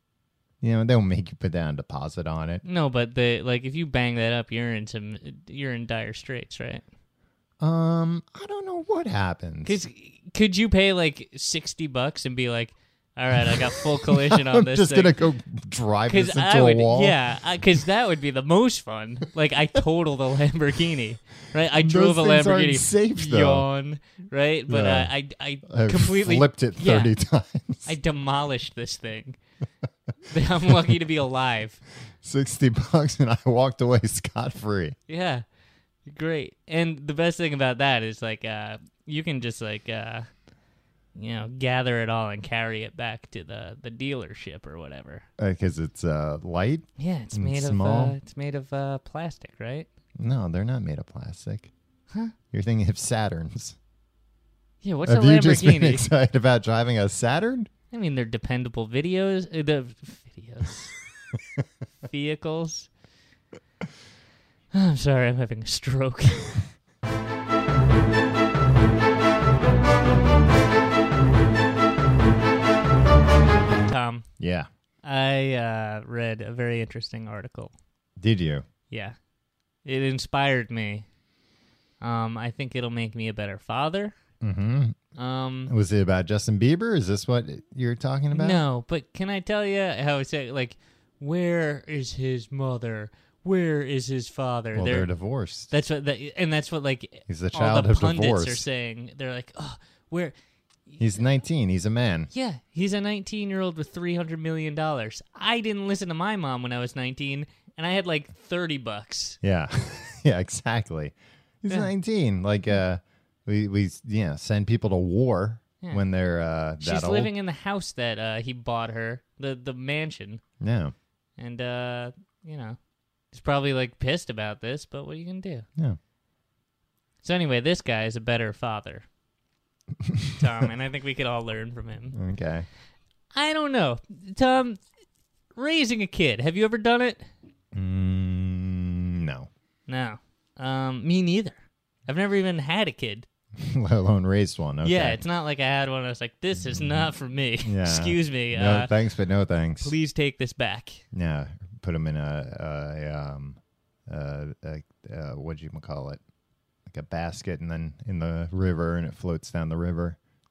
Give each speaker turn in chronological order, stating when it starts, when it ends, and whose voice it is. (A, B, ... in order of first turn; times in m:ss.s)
0:00.6-0:02.6 A
0:02.6-0:06.8 B
0:07.6-0:09.8 A
0:09.6-0:15.1 B
0:13.4-0:17.2 A
0:16.1-0:27.1 B
0:21.8-0:23.6 A
0:24.7-0:25.1 A
0:25.6-0:27.9 A
0:27.8-0:29.4 B
0:30.3-0:31.8 B
0:32.2-0:35.0 A
0:35.1-0:35.4 B
0:36.0-0:40.3 B
0:41.1-0:45.2 B
0:45.4-0:48.2 A
0:47.0-0:49.9 B
0:50.2-0:51.7 A
0:52.5-0:53.8 A
0:54.8-0:56.1 B
0:55.0-0:57.7 A
0:57.9-1:00.9 B
1:02.1-1:02.9 B
1:04.7-1:06.5 B
1:13.9-1:14.2 B
1:14.4-1:14.7 A
1:15.0-1:17.7 B
1:18.2-1:18.6 A
1:18.9-1:19.1 B
1:19.8-1:21.0 B
1:22.0-1:24.1 B
1:24.4-1:25.0 A
1:25.2-1:25.7 B
1:25.7-1:28.6 A
1:28.3-1:35.1 B
1:34.7-1:35.7 A
1:35.7-1:40.3 B
1:37.3-1:38.6 A
1:40.9-1:41.2 B
1:41.0-1:42.3 A
1:42.3-1:49.4 B
1:49.4-1:57.3 A
1:56.8-2:00.4 B
2:00.6-2:00.9 A
2:01.4-2:02.8 B
2:03.3-2:05.6 B
2:07.2-2:09.0 B
2:10.0-2:10.3 A
2:10.4-2:12.2 B
2:12.1-2:12.7 A
2:13.3-2:14.8 B
2:15.6-2:17.3 B
2:17.7-2:19.5 A
2:19.9-2:23.3 B
2:23.6-2:25.2 A
2:24.8-2:28.9 B
2:26.6-2:27.1 A
2:27.6-2:29.9 A
2:29.8-2:31.0 B
2:31.1-2:36.2 A
2:36.9-2:40.2 A